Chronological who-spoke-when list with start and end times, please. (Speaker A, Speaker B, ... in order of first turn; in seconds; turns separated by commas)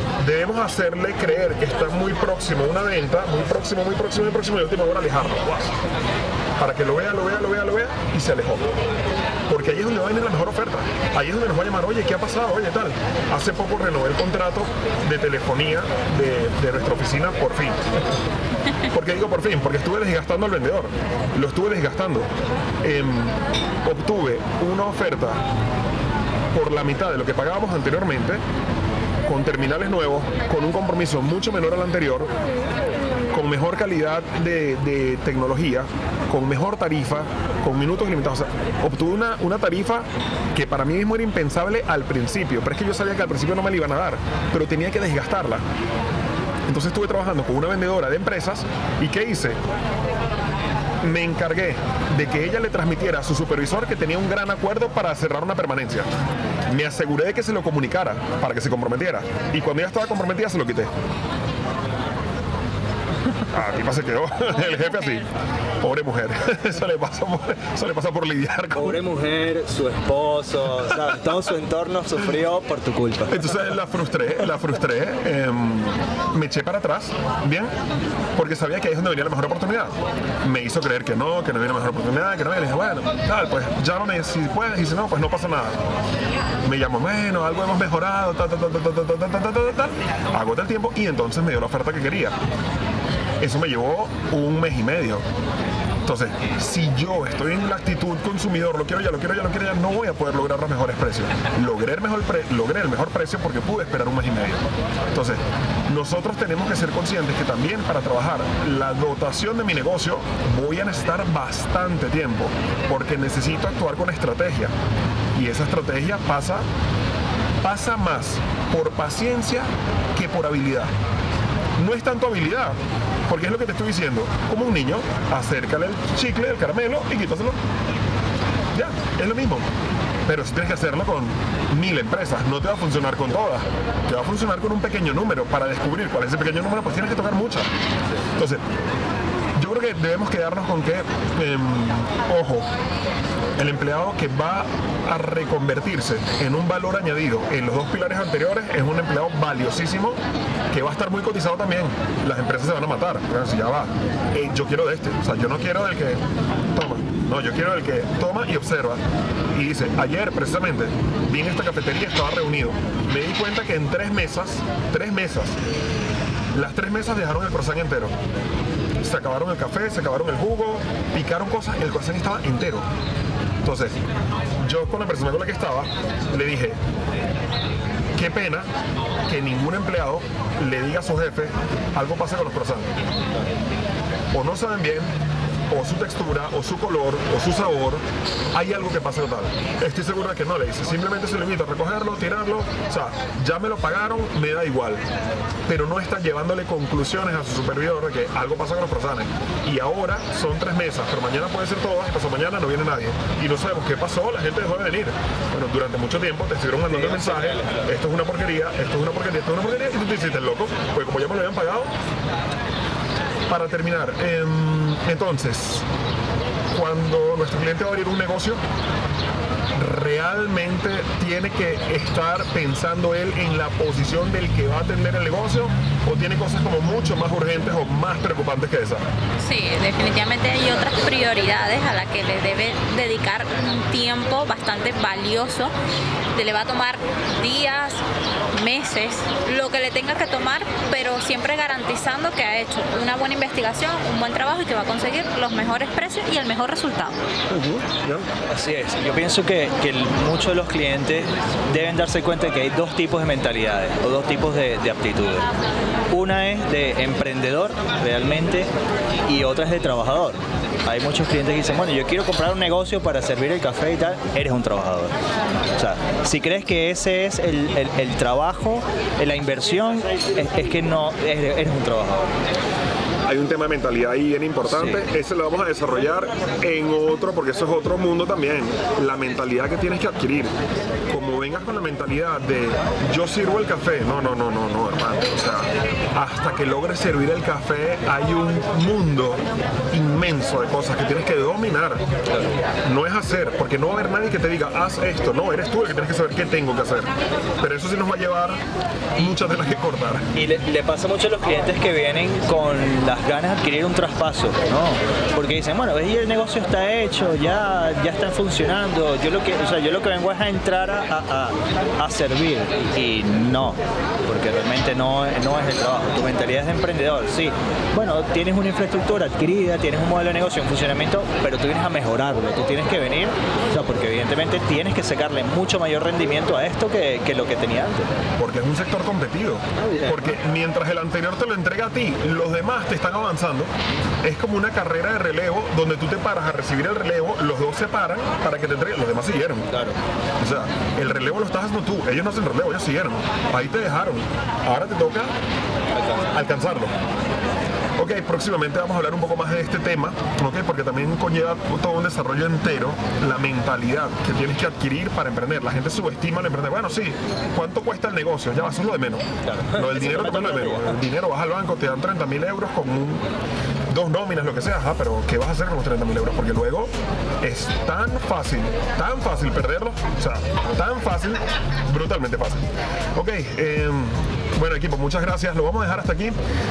Speaker A: 0.2-5.8, Speaker A: 6.6-8.7, Speaker A: 9.5-17.9, Speaker A: 18.9-22.3, Speaker A: 22.8-25.4, Speaker A: 26.5-28.4, Speaker A: 29.3-32.3, Speaker A: 33.3-45.6, Speaker A: 46.7-49.6, Speaker A: 51.0-56.1, Speaker A: 56.7-60.9, Speaker A: 63.5-65.2, Speaker A: 65.8-69.0, Speaker B: 68.7-73.5, Speaker A: 73.3-77.7, Speaker A: 78.4-85.8, Speaker A: 86.7-92.4, Speaker A: 93.4-95.2, Speaker A: 96.1-114.7, Speaker A: 115.3-116.7, Speaker A: 117.6-120.9, Speaker A: 121.8-122.8, Speaker A: 123.3-127.6, Speaker A: 128.7-129.7, Speaker A: 130.3-137.7, Speaker A: 138.3-138.6, Speaker A: 139.6-142.7, Speaker A: 143.6-150.2, Speaker A: 150.7-156.2, Speaker A: 156.7-159.0, Speaker A: 159.5-165.6, Speaker A: 166.5-168.1, Speaker A: 169.0-172.9, Speaker A: 173.6-174.0, Speaker A: 174.6-176.8, Speaker A: 178.2-178.7, Speaker A: 179.3-182.9, Speaker A: 184.3-185.1, Speaker A: 185.7-188.0, Speaker A: 188.5-195.0, Speaker A: 195.7-211.9, Speaker A: 213.5-215.9, Speaker A: 216.7-218.6, Speaker A: 219.8-229.1, Speaker C: 229.4-235.7, Speaker C: 236.3-238.0, Speaker C: 238.5-247.2, Speaker A: 247.5-248.3, Speaker B: 248.5-255.5, Speaker B: 256.1-258.7, Speaker B: 259.3-265.2, Speaker B: 265.8-272.3, Speaker A: 273.3-280.5, Speaker B: 274.7-275.1, Speaker A: 281.1-292.1, Speaker A: 292.8-298.6, Speaker A: 299.2-300.3, Speaker B: 300.3-328.1, Speaker A: 328.4-333.7, Speaker B: 329.8-330.4, Speaker A: 334.2-339.7, Speaker B: 339.7-340.0, Speaker A: 340.4-345.3, Speaker A: 346.3-346.9, Speaker A: 348.0-363.3, Speaker B: 359.4-361.0, Speaker A: 363.9-366.9, Speaker A: 367.4-376.4